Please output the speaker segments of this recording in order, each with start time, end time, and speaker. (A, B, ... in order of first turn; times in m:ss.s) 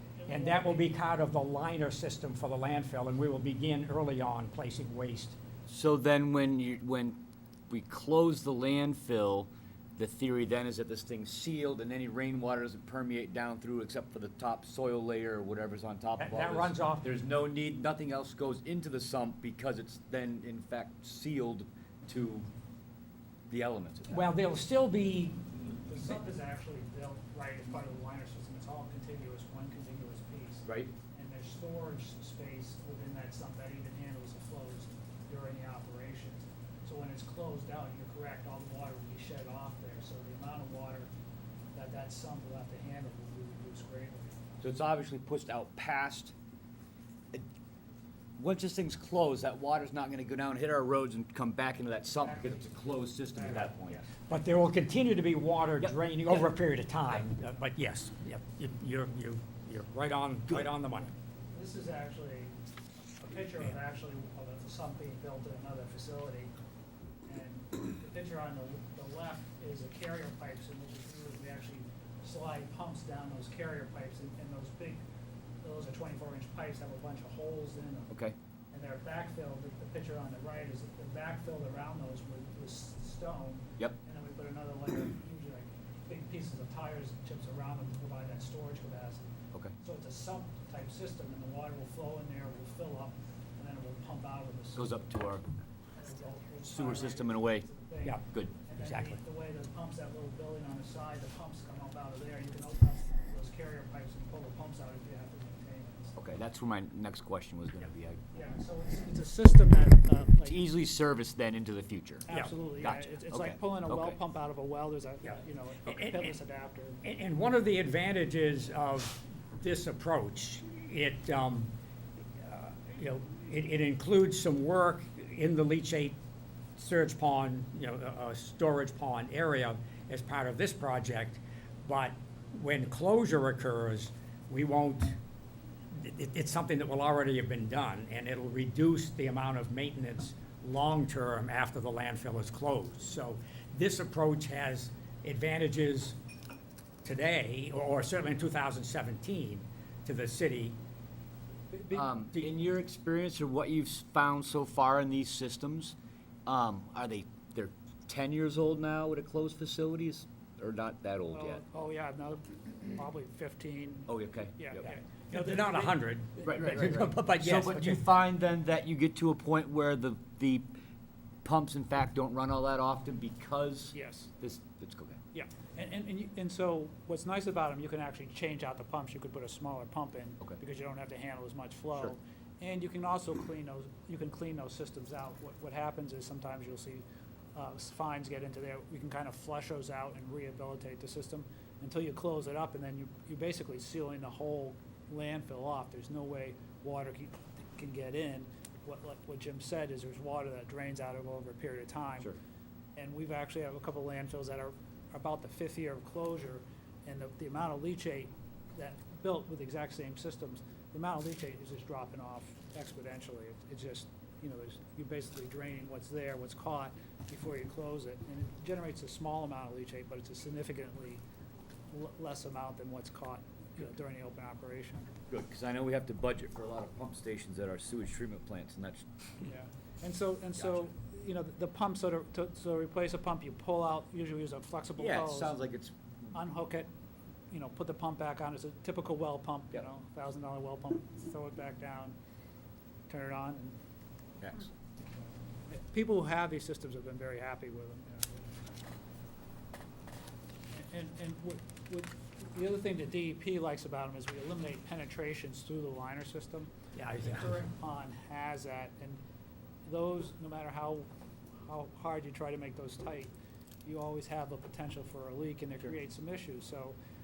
0:00.2-0:00.9 A
0:00.3-0:05.4 B
0:05.7-0:07.2 C
0:07.7-0:22.5 C
0:16.2-0:17.1 B
0:23.5-0:24.2 C
0:24.1-0:26.1 B
0:25.9-0:41.1 A
0:30.7-0:30.9 C
0:41.7-0:44.4 A
0:44.6-0:46.3 C
0:48.4-0:54.1 C
0:52.2-0:54.3 A
0:54.3-1:01.1 B
0:55.8-0:56.4 C
1:01.5-1:02.6 A
1:03.2-1:06.5 A
1:07.3-1:15.0 A
1:15.6-1:18.2 A
1:18.7-1:35.0 A
1:34.8-1:35.5 C
1:36.0-1:46.2 A
1:36.6-1:37.7 C
1:38.8-1:39.2 B
1:46.2-1:48.2 C
1:48.3-1:50.6 A
1:50.4-1:52.3 C
1:52.2-1:57.0 A
1:52.8-1:54.2 C
1:55.9-1:56.3 B
1:57.0-2:01.7 B
2:02.4-2:06.2 B
2:06.8-2:15.2 B
2:15.9-2:26.2 B
2:27.0-2:30.8 B
2:31.7-2:32.1 A
2:31.9-2:36.0 C
2:36.5-2:41.6 C
2:41.3-2:46.6 A
2:44.1-2:44.9 C
2:45.3-2:48.0 B
2:46.4-2:50.7 C
2:51.4-2:55.2 C
2:53.9-2:54.3 A
2:55.3-3:22.3 A
3:23.0-3:41.2 A
3:41.9-3:45.2 A
3:45.3-3:49.1 C
3:49.4-3:55.6 A
3:55.0-3:56.3 C
3:56.3-3:56.9 A
3:57.5-4:02.2 A
4:03.1-4:03.8 A
4:05.7-4:08.6 A
4:10.7-4:19.2 A
4:17.0-4:17.7 B
4:19.8-4:21.1 A
4:21.6-4:23.3 A
4:23.8-4:27.0 A